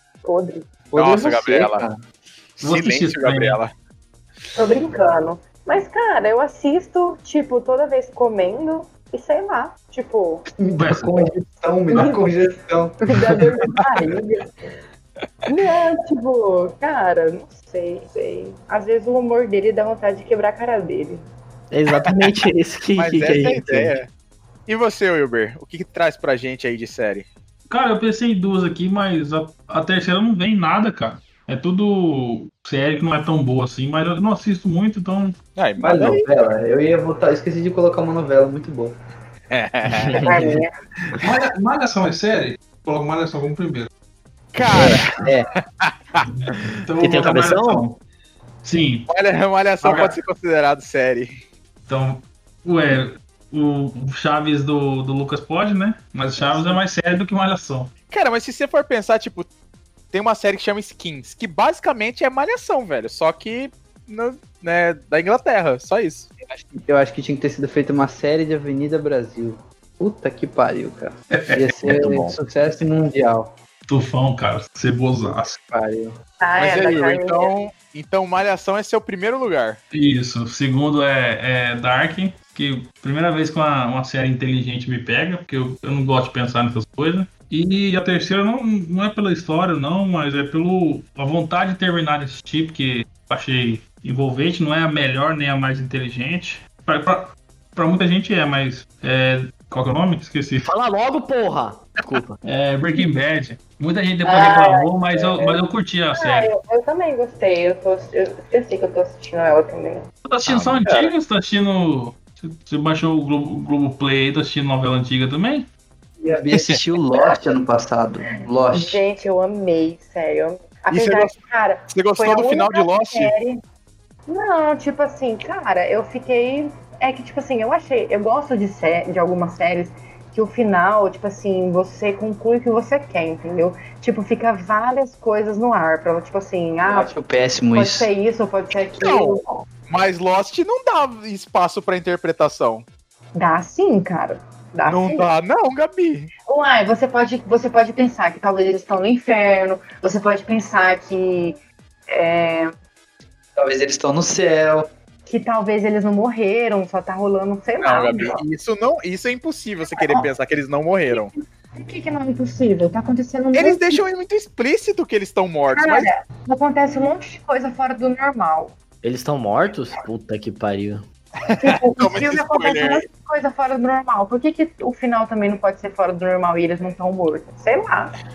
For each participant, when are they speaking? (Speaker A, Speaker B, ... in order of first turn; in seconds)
Speaker A: 0.2-0.7, 4.5-10.4, 11.9-12.2, 13.1-14.5, 15.5-21.2, 40.2-40.7, 76.4-77.5, 104.2-105.6, 106.1-110.1, 118.7-123.6, 124.3-137.1, 137.7-139.4, 143.3-145.3, 146.5-151.6, 152.1-152.7, 155.3-158.4, 160.0-160.3, 161.1-164.0, 165.7-168.7, 171.6-178.1
Speaker B: 0.9-2.0, 10.6-13.0, 35.8-39.0, 45.2-45.5, 66.5-73.5, 75.2-76.2, 116.2-119.0, 136.9-138.1, 153.6-154.9
Speaker C: 0.9-1.9, 2.6-3.7, 22.0-22.3, 23.0-24.1, 24.7-27.3, 35.6-36.2, 39.5-40.4, 44.5-45.3, 45.8-46.7, 49.1-51.3, 58.1-59.5, 60.1-66.3, 76.6-79.8, 110.5-111.1, 120.9-121.4, 121.9-123.3, 139.0-142.8, 144.9-146.3, 157.8-161.3, 163.5-166.1, 171.5-173.0
Speaker D: 2.6-3.6, 10.8-11.2, 27.7-35.4, 41.2-43.9, 46.5-48.0, 48.6-49.1, 49.8-50.2, 51.9-57.9, 71.3-72.1, 73.9-75.6, 79.9-100.7, 102.4-106.5, 110.3-115.7
Speaker E: 21.7-23.9, 39.9-40.6, 44.8-45.0, 47.0-47.9, 71.9-72.3, 100.6-102.4, 169.0-171.1